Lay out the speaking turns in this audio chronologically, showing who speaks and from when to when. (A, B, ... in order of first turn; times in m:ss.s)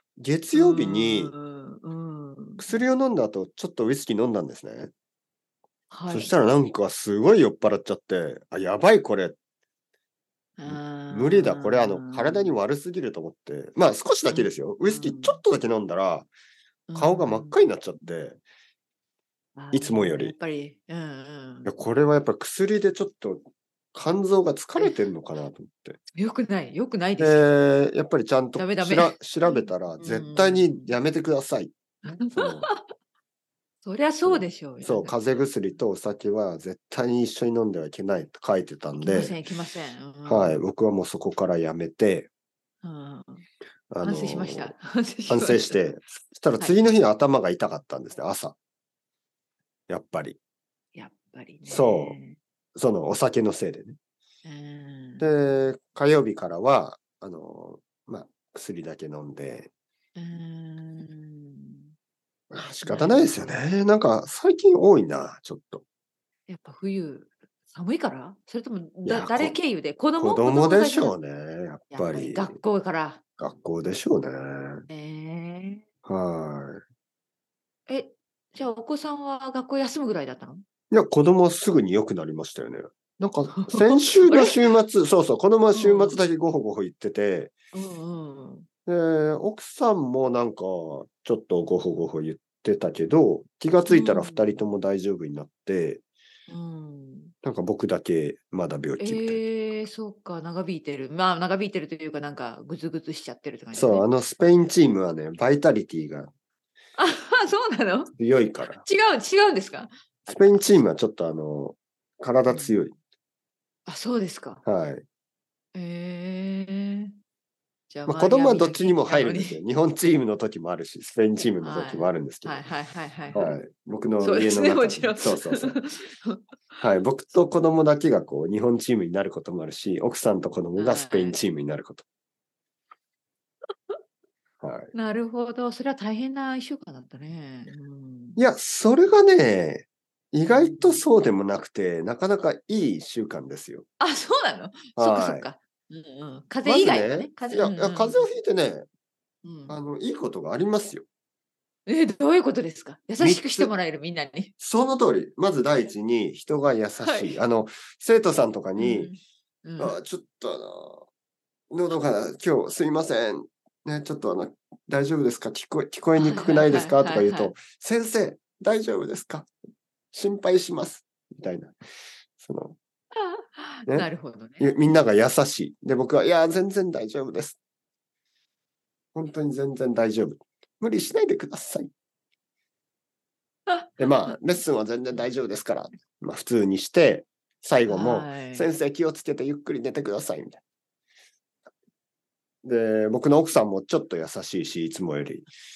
0:00.2-0:01.3 A
0:00.5-0:02.7 B
0:02.6-0:04.9 A
0:05.9-0:06.3 B
0:06.1-0:09.4 A
0:10.6-0:12.6 B
0:10.7-0:16.3 A
0:14.3-0:15.4 B
0:16.9-0:17.6 B
0:16.9-0:18.4 A
0:19.6-0:21.7 B
0:19.7-0:20.3 A
0:21.6-0:23.4 A
0:23.9-0:26.0 A
0:24.8-0:25.1 B
0:26.1-0:27.5 B
0:27.2-0:31.7 A
0:28.6-0:30.9 B
0:32.0-0:32.8 B
0:32.3-0:32.7 A
0:33.8-0:35.4 B
0:34.2-0:39.4 A
0:39.0-0:40.6 B
0:40.2-0:42.3 A
0:42.8-0:43.4 B
0:43.9-0:44.7 A
0:44.0-0:45.8 B
0:45.3-0:48.6 A
0:46.6-0:47.0 B
0:49.9-0:50.4 A
0:50.9-0:52.4 B
0:51.7-0:52.2 A
0:52.8-0:54.0 A
0:54.4-0:55.3 B
0:55.2-0:59.7 A
1:00.1-1:01.9 B
1:02.5-1:05.8 A
1:02.8-1:03.6 B
1:06.5-1:11.2 B
1:09.0-1:09.6 A
1:10.2-1:12.6 A
1:11.9-1:13.2 B
1:13.4-1:14.8 A
1:14.9-1:15.8 B
1:16.0-1:16.8 A
1:17.9-1:20.6 B
1:20.9-1:27.5 A
1:23.5-1:24.6 B
1:25.7-1:26.2 B
1:27.7-1:28.7 B
1:28.9-1:36.0 A
1:33.9-1:34.6 B
1:36.5-1:37.3 B
1:37.4-1:39.4 A
1:39.0-1:44.1 B
1:43.7-1:46.3 A
1:47.0-1:48.1 B
1:48.2-1:48.8 A
1:48.8-1:50.7 B
1:50.3-1:52.9 A
1:52.5-1:52.8 B
1:53.9-1:54.6 B
1:54.6-1:55.0 A
1:55.7-1:57.1 B
1:57.9-1:59.6 B
1:58.1-2:02.6 A
2:01.6-2:03.6 B
2:03.3-2:05.8 A
2:04.2-2:06.8 B
2:06.8-2:12.0 A
2:10.8-2:11.4 B
2:14.6-2:14.9 A
2:14.9-2:18.4 B
2:18.4-2:23.8 A
2:20.4-2:21.1 B
2:24.0-2:28.3 B
2:25.0-2:25.4 A
2:26.6-2:28.8 A
2:29.4-2:29.8 B
2:29.7-2:31.0 A
2:31.9-2:34.5 B
2:33.2-2:33.7 A
2:34.6-2:39.1 A
2:37.0-2:37.3 B
2:38.8-2:40.0 B
2:39.8-2:41.0 A
2:41.7-2:49.5 A
2:46.2-2:47.5 B
2:50.1-2:51.8 A
2:52.4-2:52.8 A
2:53.2-2:55.0 B
2:54.6-2:57.6 A
2:59.1-3:01.9 A
3:03.7-3:04.4 B
3:04.0-3:10.6 A
3:07.8-3:08.7 B
3:12.6-3:15.5 A